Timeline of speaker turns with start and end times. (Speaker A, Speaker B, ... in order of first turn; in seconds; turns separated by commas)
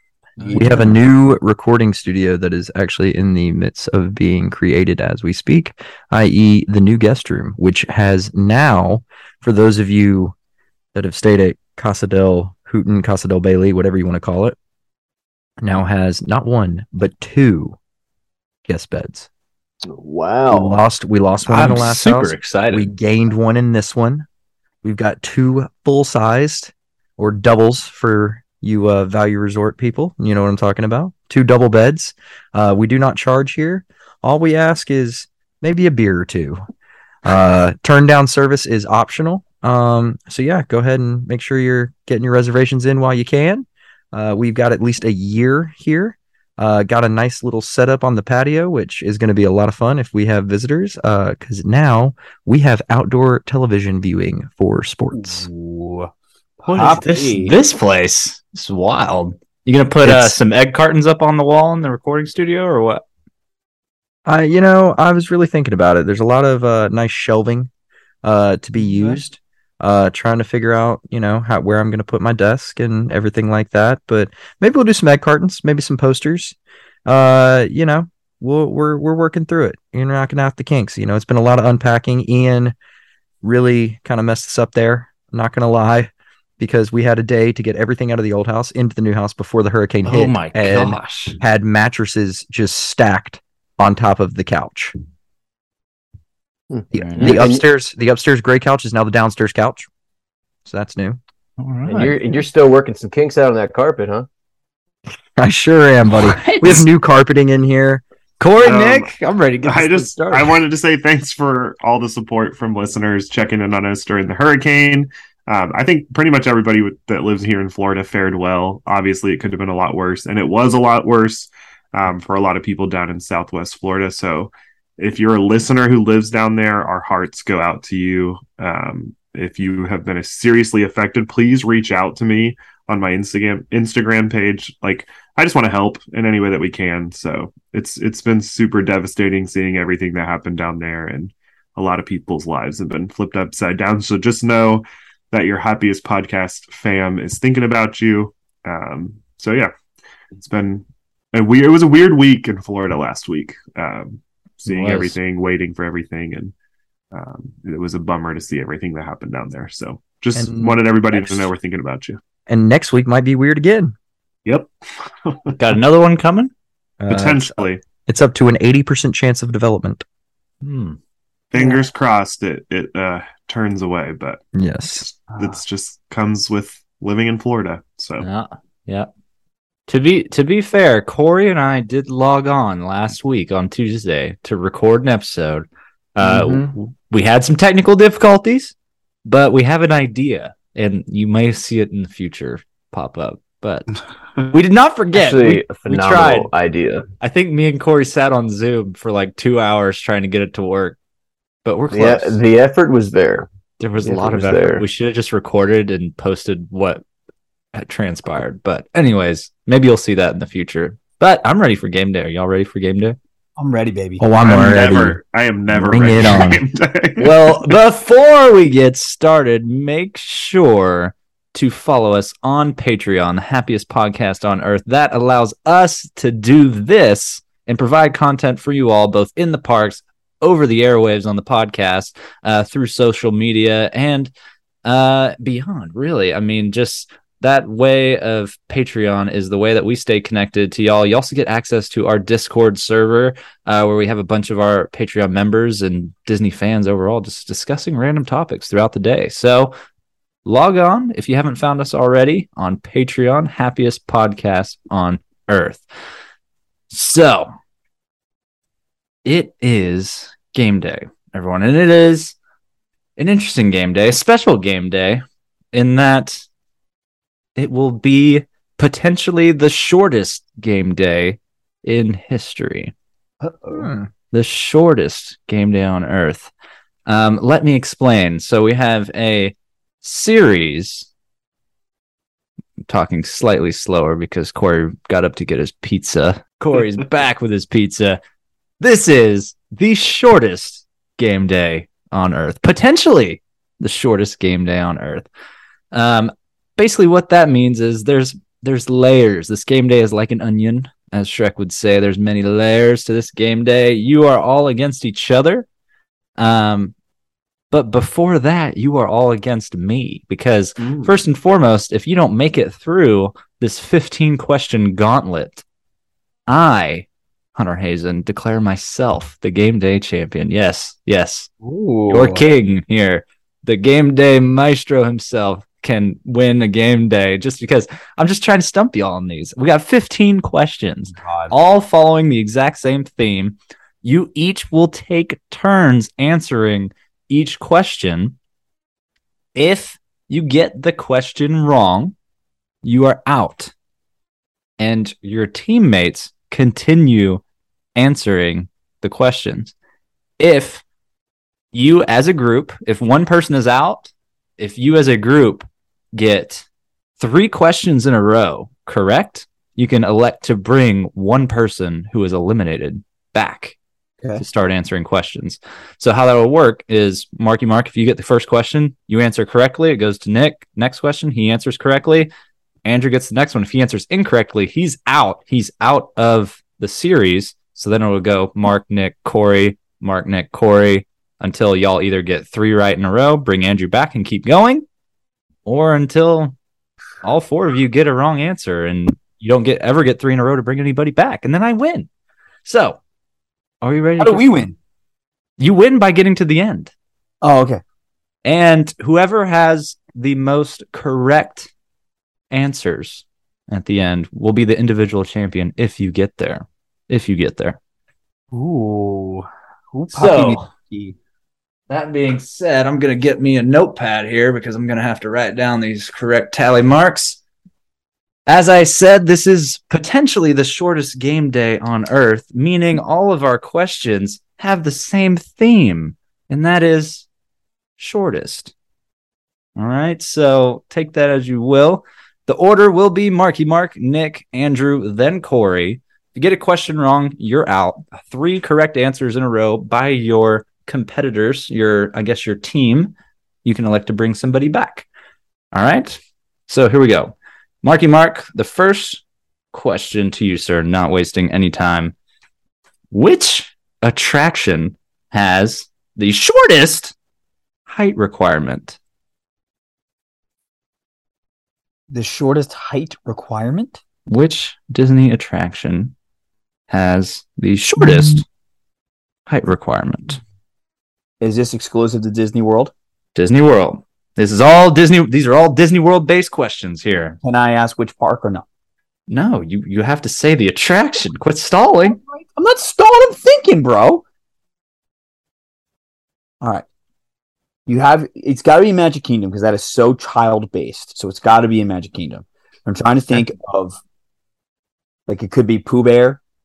Speaker A: 0.4-0.9, Speaker B: 0.5-10.3, Speaker B: 10.9-14.6, Speaker B: 15.6-17.8, Speaker B: 18.7-19.3, Speaker C: 19.9-20.8, Speaker B: 20.5-24.3, Speaker D: 21.4-22.9, Speaker B: 24.8-36.6, Speaker B: 37.2-55.5, Speaker A: 55.2-56.1, Speaker A: 56.6-57.5, Speaker D: 56.7-63.0, Speaker B: 60.0-60.4, Speaker B: 64.3-67.7, Speaker B: 68.2-76.5, Speaker D: 68.8-69.2, Speaker B: 77.1-82.8, Speaker B: 83.4-94.9, Speaker D: 90.0-91.4, Speaker C: 96.7-97.6, Speaker B: 96.9-99.9, Speaker D: 97.0-97.4, Speaker B: 100.7-101.2, Speaker D: 101.6-102.2, Speaker C: 101.9-104.3, Speaker B: 105.4-108.0, Speaker D: 106.1-106.8, Speaker D: 108.4-110.6, Speaker E: 108.6-109.1, Speaker E: 109.6-149.7, Speaker E: 150.3-156.5, Speaker D: 154.7-155.2, Speaker E: 157.1-162.2, Speaker B: 160.3-161.5, Speaker B: 162.5-163.9, Speaker E: 164.5-164.7, Speaker E: 165.2-165.6, Speaker D: 165.6-166.5, Speaker B: 167.0-170.1, Speaker E: 167.1-167.8, Speaker D: 170.6-171.0, Speaker E: 171.5-174.4, Speaker B: 174.5-175.1, Speaker E: 174.9-178.2, Speaker D: 178.2-179.1, Speaker D: 179.9-188.7, Speaker C: 186.2-186.7, Speaker D: 189.2-193.9, Speaker D: 194.4-196.5, Speaker C: 195.1-197.1, Speaker D: 197.2-201.0, Speaker D: 201.7-202.4, Speaker C: 201.9-203.5, Speaker D: 203.8-207.0, Speaker C: 204.0-204.9, Speaker D: 207.7-213.2, Speaker A: 213.6-214.2, Speaker B: 214.2-215.2, Speaker E: 214.4-217.8, Speaker B: 215.7-216.6, Speaker D: 217.2-234.3, Speaker D: 234.8-249.8, Speaker D: 250.4-255.9, Speaker D: 256.9-257.5, Speaker D: 259.2-262.4, Speaker D: 263.2-266.4, Speaker D: 267.6-272.9, Speaker A: 273.4-273.9, Speaker B: 273.7-274.1, Speaker D: 274.3-276.5, Speaker D: 277.1-281.1, Speaker D: 282.9-288.2, Speaker D: 288.8-295.3, Speaker D: 295.9-305.7, Speaker D: 306.4-306.9, Speaker D: 307.7-315.6, Speaker E: 310.8-311.2, Speaker D: 316.5-321.5, Speaker A: 321.6-322.4, Speaker D: 322.1-338.4, Speaker A: 331.1-331.5, Speaker D: 339.6-342.1, Speaker D: 342.8-343.7, Speaker D: 344.8-347.4, Speaker D: 347.9-349.7, Speaker D: 350.4-350.8, Speaker D: 351.7-356.6, Speaker D: 357.2-363.8, Speaker D: 364.4-372.3, Speaker D: 372.9-384.9, Speaker D: 385.7-386.6, Speaker D: 387.2-392.1, Speaker D: 392.6-393.0, Speaker D: 393.8-394.7, Speaker A: 394.2-394.7, Speaker D: 395.6-396.9, Speaker A: 397.4-397.8, Speaker D: 398.4-401.7, Speaker D: 402.5-407.8, Speaker A: 408.5-411.1, Speaker D: 410.1-410.7, Speaker D: 411.9-417.4, Speaker D: 418.5-427.3, Speaker D: 428.0-428.7, Speaker D: 429.8-445.1, Speaker D: 445.7-452.1, Speaker D: 453.1-457.1, Speaker D: 457.9-459.0, Speaker A: 462.1-464.0, Speaker D: 464.3-466.1, Speaker D: 466.9-468.4, Speaker D: 469.5-470.4, Speaker A: 471.4-472.9, Speaker D: 473.4-477.4, Speaker A: 477.4-478.6, Speaker D: 479.3-482.2, Speaker A: 482.2-484.2, Speaker A: 487.9-494.0, Speaker A: 495.3-496.4